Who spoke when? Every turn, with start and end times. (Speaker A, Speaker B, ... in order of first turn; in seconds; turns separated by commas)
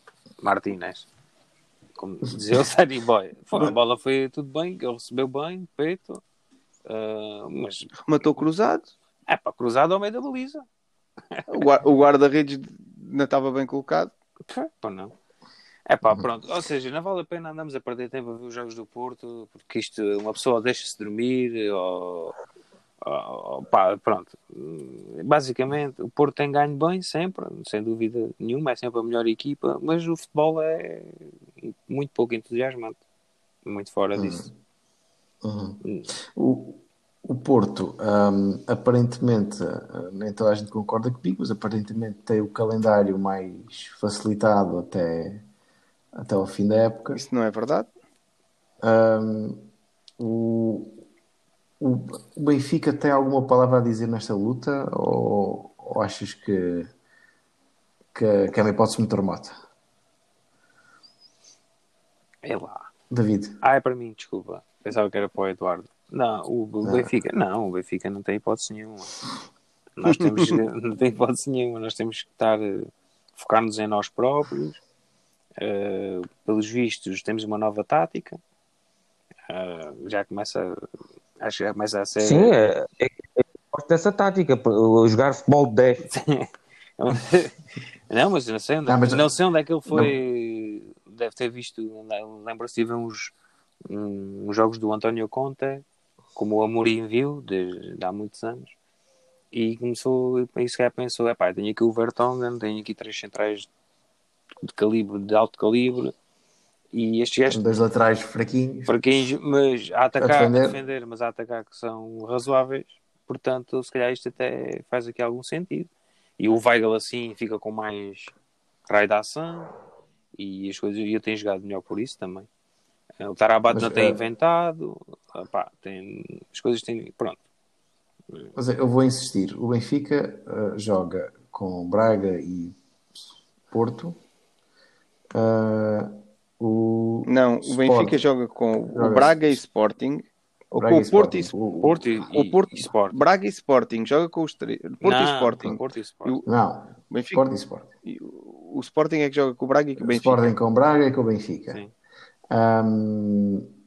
Speaker A: 0.4-1.1, Speaker A: 2.0-6.2, Speaker A: 6.9-8.0, Speaker B: 8.1-8.9, Speaker A: 9.3-10.6, Speaker A: 11.3-11.7, Speaker B: 11.5-14.1, Speaker A: 14.5-15.1, Speaker A: 15.9-22.3, Speaker A: 23.0-33.0, Speaker A: 33.6-34.5, Speaker C: 34.1-34.5, Speaker C: 35.4-35.8, Speaker C: 36.3-45.4, Speaker C: 46.1-47.2, Speaker B: 47.1-47.9, Speaker C: 48.8-51.0, Speaker C: 51.8-56.9, Speaker C: 58.1-59.5, Speaker A: 62.4-62.9, Speaker C: 63.1-63.5, Speaker A: 63.6-69.1, Speaker C: 66.8-67.1, Speaker A: 70.0-74.8, Speaker B: 70.0-70.5, Speaker A: 75.6-78.4, Speaker A: 79.5-80.8, Speaker A: 81.4-82.5, Speaker D: 82.2-86.1, Speaker A: 86.1-87.5, Speaker A: 88.1-93.3, Speaker C: 88.8-89.3, Speaker C: 89.9-90.1, Speaker A: 93.9-95.8, Speaker A: 96.3-98.7, Speaker A: 99.5-103.7, Speaker A: 104.6-106.1, Speaker A: 106.9-107.7, Speaker C: 107.5-109.0, Speaker A: 108.9-118.3, Speaker C: 110.2-110.8, Speaker A: 118.9-119.7, Speaker A: 120.3-122.5, Speaker A: 123.2-127.4, Speaker C: 123.7-124.2, Speaker C: 128.6-132.8, Speaker C: 133.7-134.2, Speaker C: 135.3-138.2, Speaker B: 137.2-141.5, Speaker C: 138.9-139.6, Speaker C: 140.7-142.1, Speaker A: 141.8-143.2, Speaker B: 142.3-146.4, Speaker A: 145.0-146.4, Speaker C: 146.4-147.9, Speaker B: 147.1-150.5, Speaker C: 150.0-151.8, Speaker C: 152.5-153.7